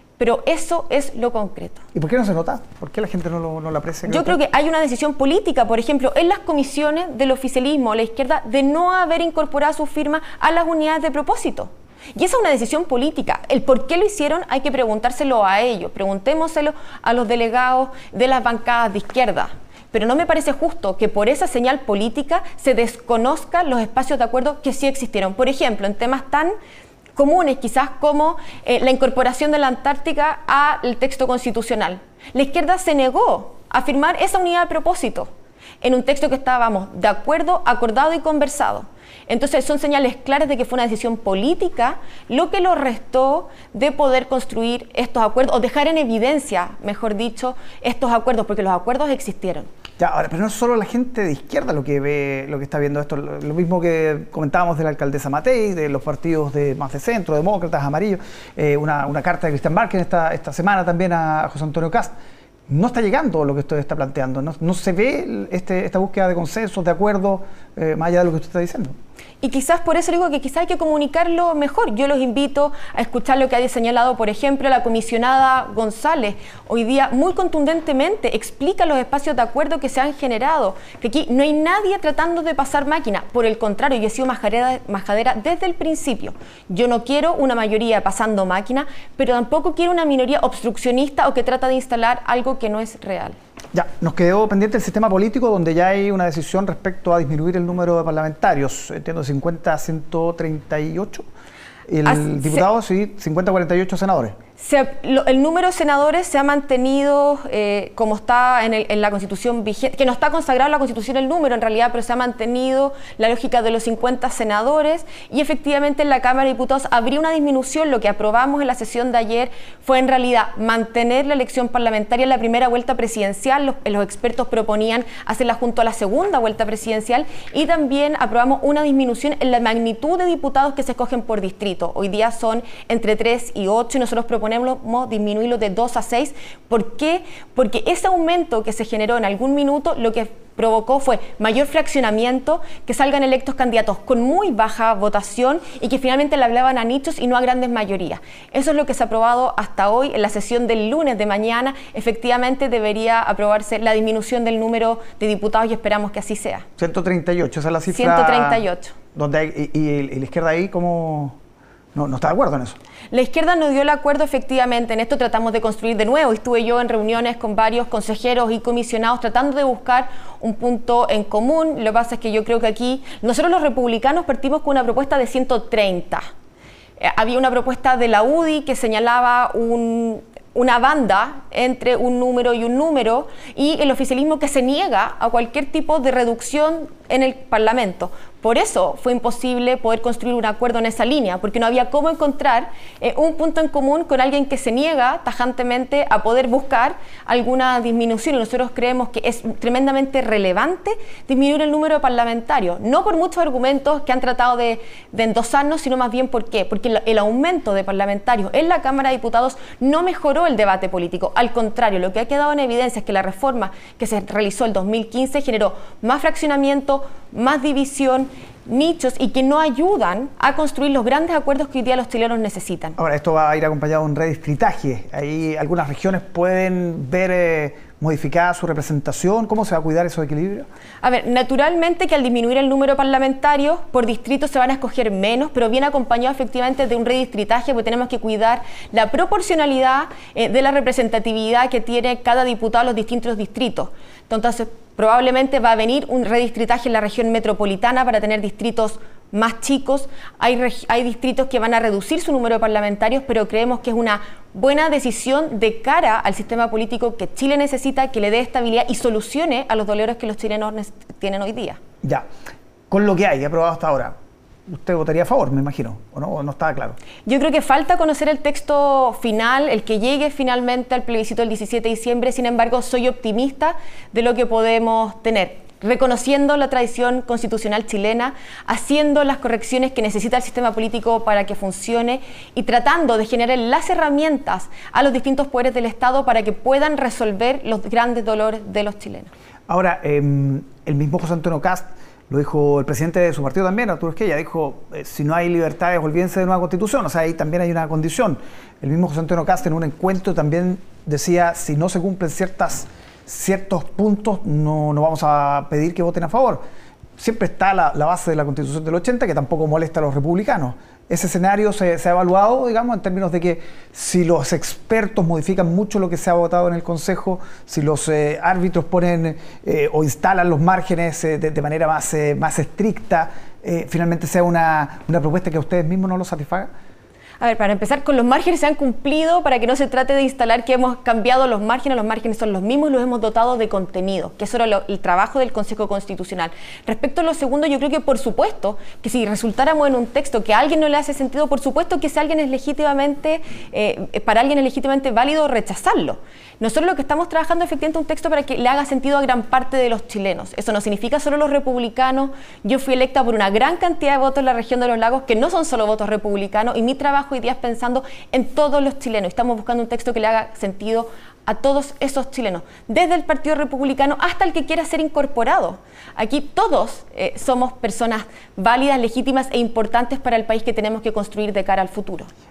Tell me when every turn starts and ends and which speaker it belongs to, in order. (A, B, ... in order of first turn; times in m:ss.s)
0:00.2-0:01.8 A
0:01.9-0:04.4 B
0:04.1-0:26.5 A
0:27.2-0:35.3 A
0:35.8-0:49.7 A
0:50.0-1:02.1 B
1:02.7-1:08.9 B
1:09.4-1:33.4 A
1:33.7-1:41.2 B
1:41.9-1:44.4 B
1:42.0-1:42.6 A
1:44.6-2:36.6 A
2:36.8-2:41.4 B
2:37.9-2:39.0 A
2:41.9-2:42.8 B
2:43.1-2:56.2 A
2:57.0-3:43.0 A
3:43.0-3:50.6 B
3:51.0-4:21.8 A
4:22.9-4:24.1 B
4:24.7-4:27.0 B
4:27.2-4:49.3 A
4:49.7-5:06.6 B
5:07.2-5:26.7 B
5:27.4-6:12.3 A